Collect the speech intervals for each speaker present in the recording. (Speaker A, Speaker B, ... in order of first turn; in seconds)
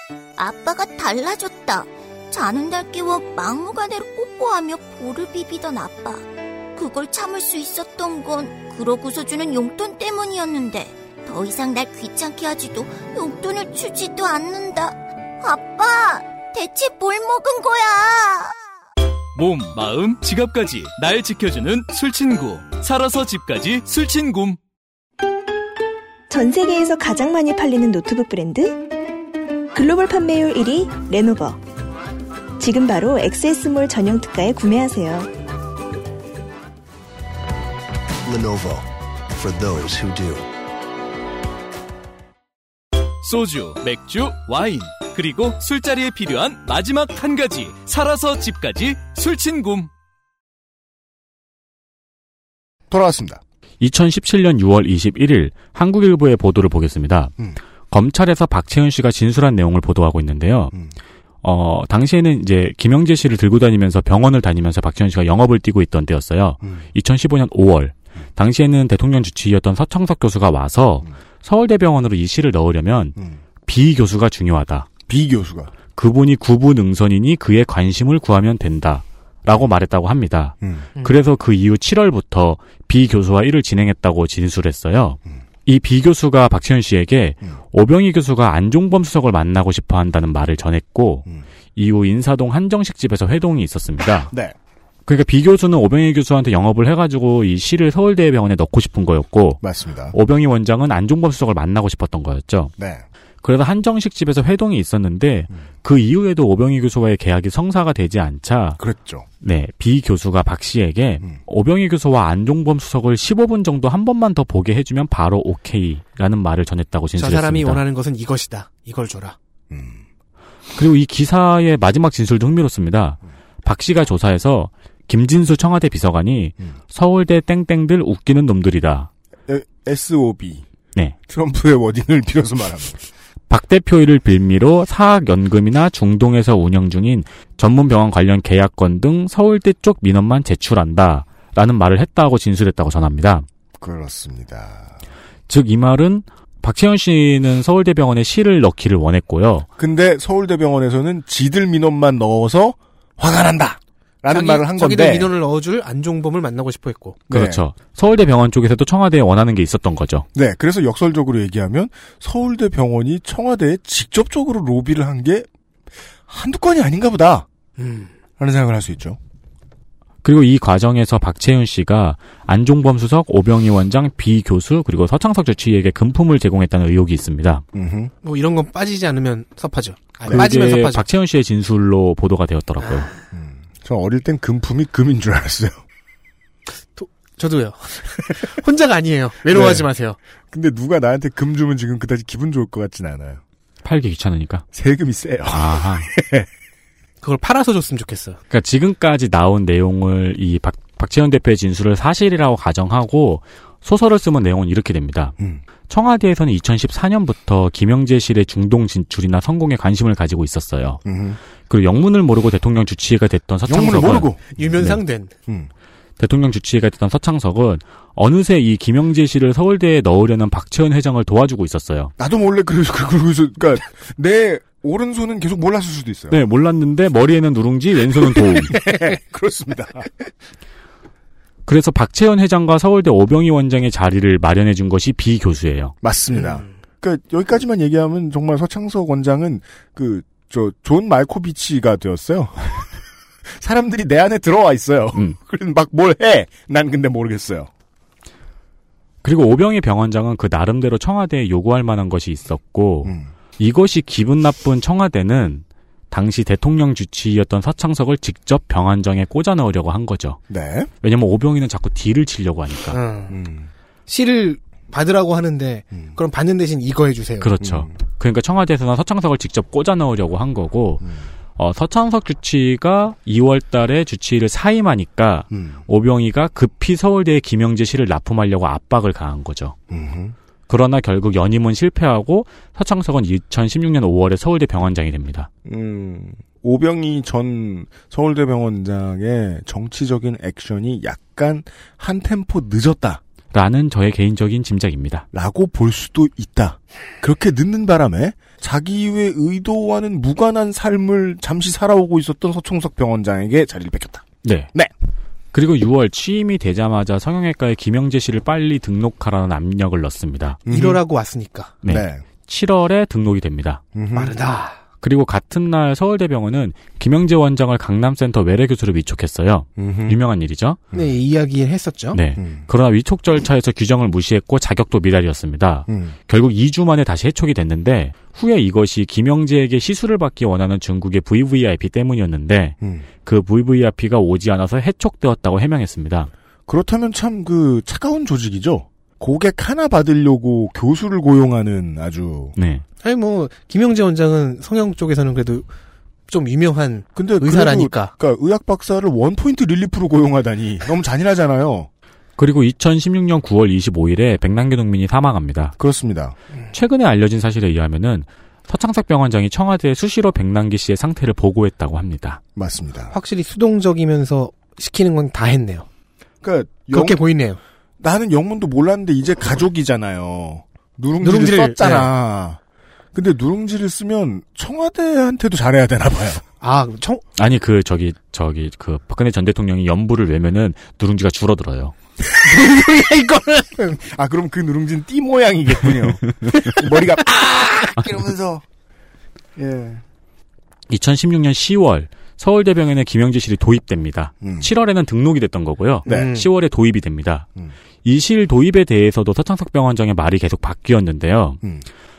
Speaker A: 0.4-6.2, 6.7-18.5
Speaker B: 19.3-24.6, 43.2-49.9
Speaker C: 26.3-28.8, 29.7-31.6, 32.6-35.3
Speaker D: 38.2-40.5
Speaker E: 52.9-53.4, 66.6-66.9, 75.1-75.7, 80.6-80.9, 99.6-100.2, 102.8-103.0, 108.8-109.3, 119.7-120.0, 129.5-130.6, 131.3-133.0, 143.8-145.0, 149.8-155.3, 157.3-157.6, 160.3-165.5, 166.3-167.5, 168.4-169.2, 177.7-178.1, 183.3-185.8, 189.5-189.9, 190.5-193.4, 194.7-196.5, 211.1-211.4, 213.7-214.6, 222.2-226.4, 228.7-230.1, 236.0-242.9, 243.6-247.7, 253.0-253.3, 260.5-260.9, 263.3-263.7, 267.6-267.9, 271.0-271.3, 275.5-275.8, 279.9-280.3, 285.6-293.2, 295.3-304.9, 310.7-311.0, 311.8-312.2, 313.9-314.3, 319.8-320.2, 322.4-322.7, 325.9-326.2, 332.8-333.1, 336.7-342.6, 347.1-351.9, 355.8-356.4, 362.6-363.1, 366.4-367.2, 368.0-372.6, 373.1-376.4, 382.4-388.6, 389.6-390.0, 394.4-394.7, 396.1-396.3
Speaker F: 53.8-57.3, 57.9-60.7, 61.4-74.9, 76.0-94.3, 95.0-102.7, 103.4-108.8, 109.4-117.8, 120.8-129.1, 133.5-143.4, 145.5-149.7, 157.3-160.2, 170.2-177.6, 180.3-183.1, 193.8-194.6, 195.5-196.1, 198.5-205.4, 205.9-211.0, 211.7-215.0, 216.2-222.1, 226.3-228.8, 231.7-235.9, 249.2-260.4, 261.0-263.0, 267.4-271.0, 271.6-279.8, 280.7-285.5, 293.5-295.3, 304.4-304.7, 305.5-310.6, 311.8-313.8, 315.0-320.8, 322.1-336.3, 342.6-342.8, 352.4-355.8, 356.7-362.4, 377.4-381.9, 390.9-397.5, 398.0-401.6
Speaker G: 117.2-119.4, 154.3-157.3, 167.8-168.1, 178.2-181.1, 182.8-183.2, 186.9-190.2, 197.2-198.4, 214.5-215.4, 236.4-236.6, 262.9-263.4, 264.1-267.5, 310.7-311.8, 314.1-314.8, 320.9-322.2, 343.0-345.7, 346.3-348.1, 363.1-365.9, 366.9-367.6, 371.2-372.1, 376.6-377.2, 396.1-396.5